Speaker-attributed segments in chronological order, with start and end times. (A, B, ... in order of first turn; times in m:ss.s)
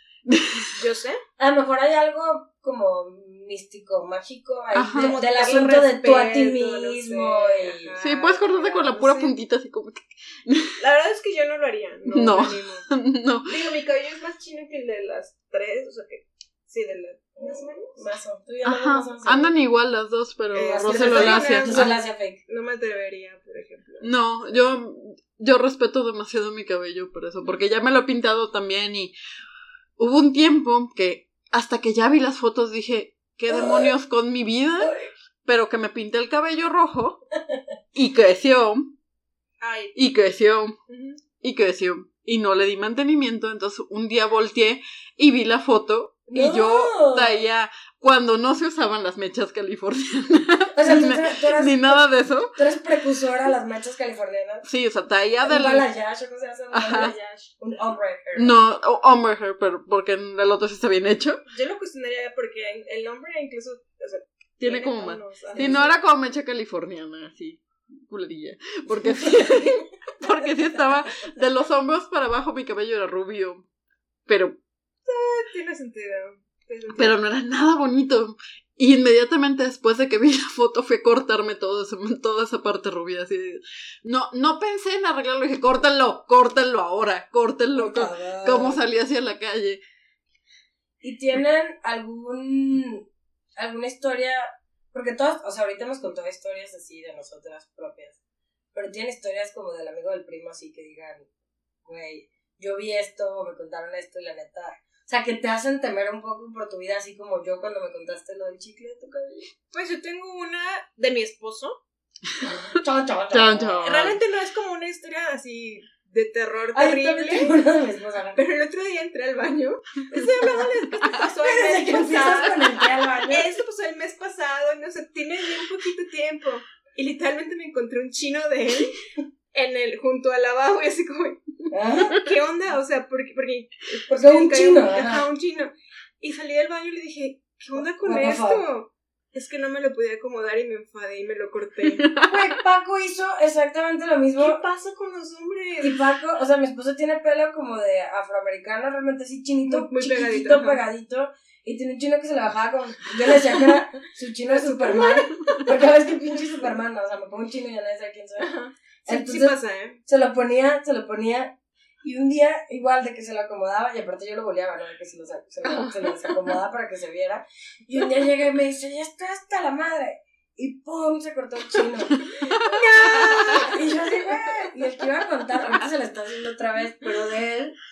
0:00.3-0:00.7 A
0:00.7-0:01.2 B
0:01.4-0:07.9 C
0:04.7-0:05.2 A
0:04.9-0:09.3 B
0:08.0-0:10.8 A
0:10.8-0:12.9 B
0:12.1-0:13.5 A
0:13.4-0:18.0 B
0:17.4-0:19.5 C
0:18.6-0:22.0 A
0:20.5-0:24.1 B
0:20.7-0:22.4 C
0:24.0-0:29.1 A
0:30.0-0:37.2 A
0:33.5-0:34.0 C
0:34.8-0:35.1 C
0:37.9-0:38.9 A
0:39.6-0:39.9 B
0:40.0-0:40.8 A
0:40.9-0:41.2 B
0:41.4-0:52.6 A
0:46.3-0:47.4 C
0:50.8-0:54.6 C
0:54.7-0:55.9 A
0:55.4-0:58.6 C
0:56.7-0:57.2 A
0:58.4-1:01.4 A
1:01.5-1:05.9 B
1:04.6-1:13.7 A
1:05.5-1:06.0 C
1:09.0-1:11.1 C
1:14.3-1:14.6 A
1:15.1-1:17.2 B
1:17.0-1:29.8 A
1:27.8-1:28.8 C
1:31.0-1:38.2 C
1:38.7-1:41.3 C
1:41.8-1:49.5 C
1:49.7-1:51.8 B
1:52.4-1:53.9 C
1:53.3-1:54.2 A
1:53.8-1:57.6 B
1:56.7-1:58.4 C
1:58.4-2:09.0 B
2:01.4-2:03.5 C
2:09.5-2:11.4 B
2:11.7-2:12.2 C
2:12.1-2:22.1 B
2:14.1-2:15.2 C
2:17.8-2:18.6 C
2:22.0-2:22.6 A
2:22.3-2:24.6 C
2:24.4-2:26.1 B
2:25.8-2:38.5 C
2:29.6-2:30.8 B
2:34.5-2:35.7 B
2:38.4-2:40.0 B
2:39.1-2:57.8 C
2:52.2-2:53.3 A
2:53.0-2:53.7 B